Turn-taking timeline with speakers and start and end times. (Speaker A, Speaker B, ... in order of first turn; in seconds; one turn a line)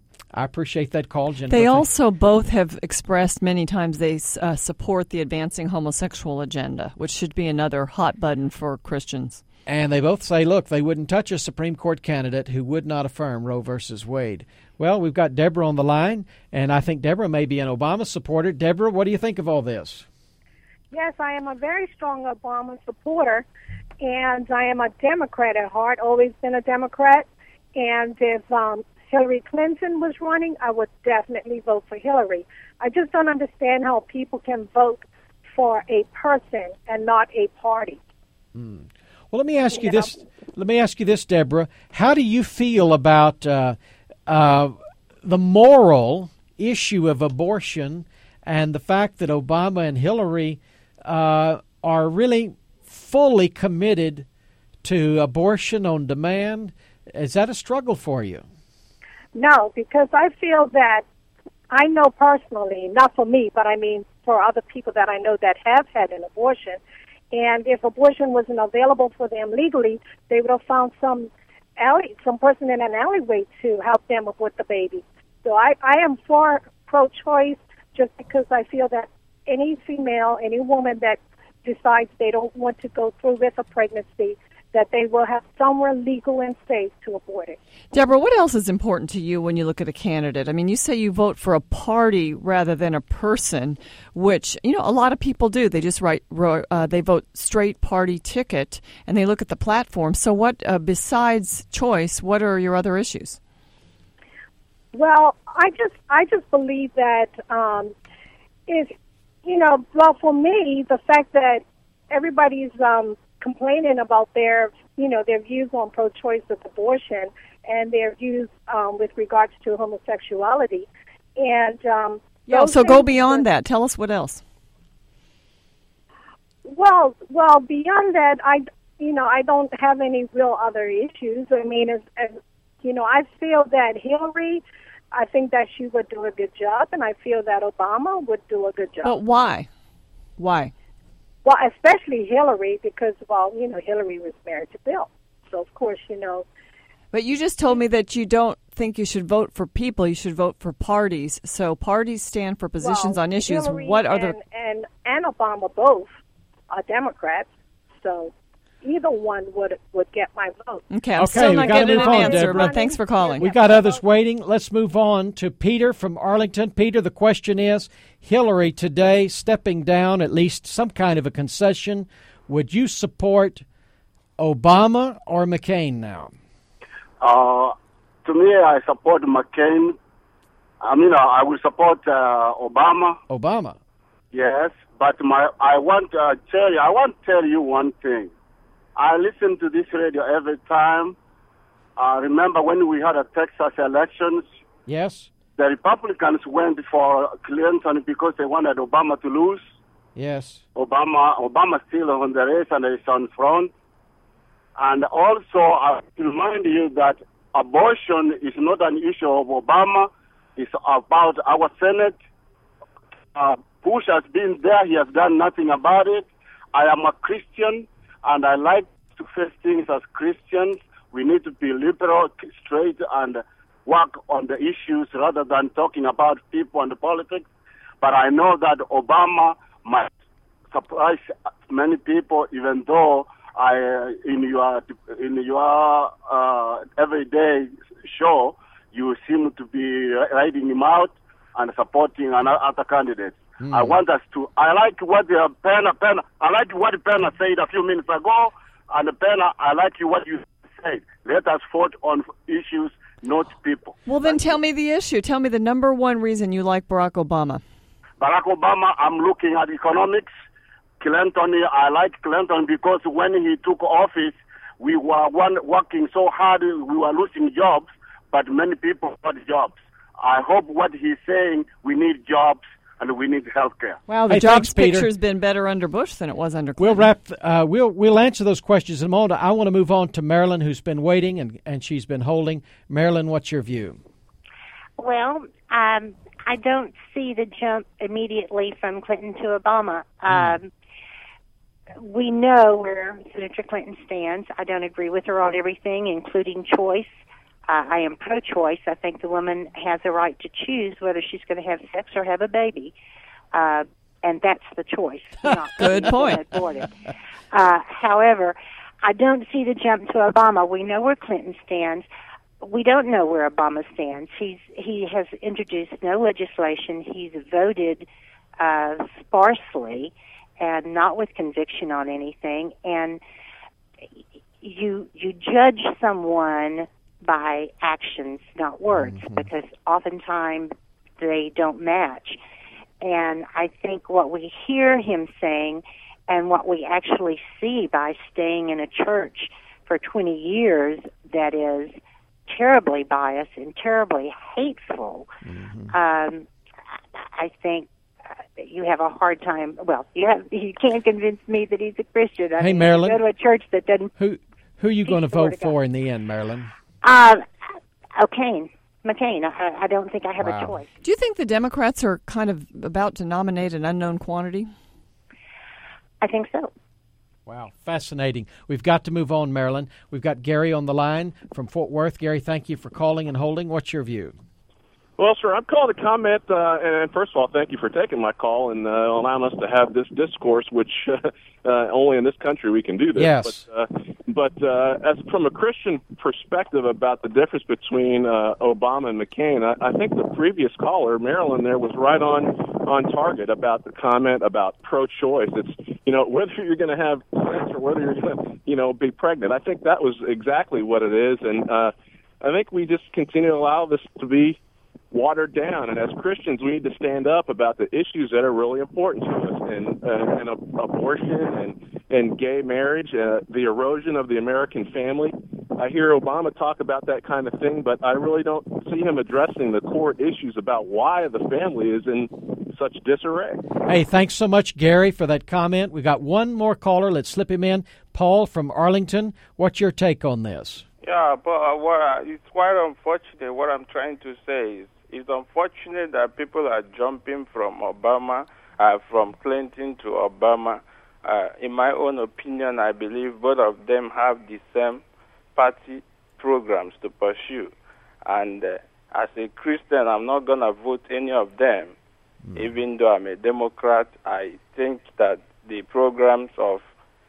Speaker A: 0.3-1.9
Speaker B: 1.5-9.4
Speaker A: 9.7-20.1
Speaker C: 20.9-23.4
Speaker C: 24.0-38.0
Speaker A: 38.5-54.2
Speaker C: 39.8-40.1
Speaker A: 54.8-58.4
Speaker C: 59.3-61.0
Speaker C: 61.7-66.8
Speaker C: 67.3-87.6
Speaker B: 87.9-103.4
Speaker C: 104.9-107.9
Speaker C: 108.7-108.9
Speaker C: 109.4-123.5
Speaker B: 122.5-124.4
Speaker C: 126.7-139.1
Speaker B: 139.0-139.7
Speaker B: 140.4-140.7
Speaker C: 141.4-146.4
Speaker B: 147.1-154.4
Speaker C: 152.8-156.1
Speaker C: 156.7-160.8
Speaker B: 160.9-163.5
Speaker A: 161.2-162.8
Speaker C: 161.4-164.0
Speaker A: 163.4-173.6
Speaker A: 174.4-176.3
Speaker D: 177.2-179.9
Speaker D: 180.8-183.2
Speaker A: 183.3-183.8
Speaker D: 184.3-188.3
Speaker D: 188.9-191.2
Speaker D: 192.0-194.5
Speaker A: 194.8-195.3
Speaker D: 195.6-199.6
Speaker A: 200.1-200.6
Speaker D: 200.8-203.7
Speaker D: 204.8-212.2
Speaker D: 213.3-227.4
Speaker D: 228.0-230.1
Speaker D: 230.7-254.4
Speaker A: 243.6-244.0
Speaker B: 254.1-257.6
Speaker D: 258.2-260.3
Speaker D: 261.0-274.0
Speaker B: 274.1-277.0
Speaker A: 274.3-275.1
Speaker A: 276.8-284.0
Speaker E: 285.0-290.7
Speaker A: 290.3-290.6
Speaker E: 292.0-297.1
Speaker E: 297.7-302.9
Speaker E: 303.5-306.9
Speaker B: 305.8-306.4
Speaker E: 307.5-312.1
Speaker E: 312.6-318.1
Speaker E: 318.6-323.2
Speaker E: 324.6-332.4
Speaker A: 328.9-329.5
Speaker E: 333.0-345.3
Speaker A: 345.4-345.9
Speaker E: 345.9-346.5
Speaker E: 347.2-347.9
Speaker E: 348.6-354.1
Speaker A: 352.6-353.2
Speaker A: 354.2-356.7
Speaker E: 355.0-355.7
Speaker E: 357.0-357.4
Speaker E: 358.2-360.9
Speaker A: 360.4-360.8
Speaker B: 361.0-364.7
Speaker E: 366.2-366.7
Speaker A: 367.4-374.4
Speaker F: 375.2-404.6
Speaker A: 383.1-383.6
Speaker F: 405.1-423.6
Speaker A: 423.9-430.8
Speaker G: 431.0-445.0
Speaker G: 445.6-447.7
Speaker G: 448.2-451.9
Speaker A: 452.4-452.7
Speaker G: 452.5-456.8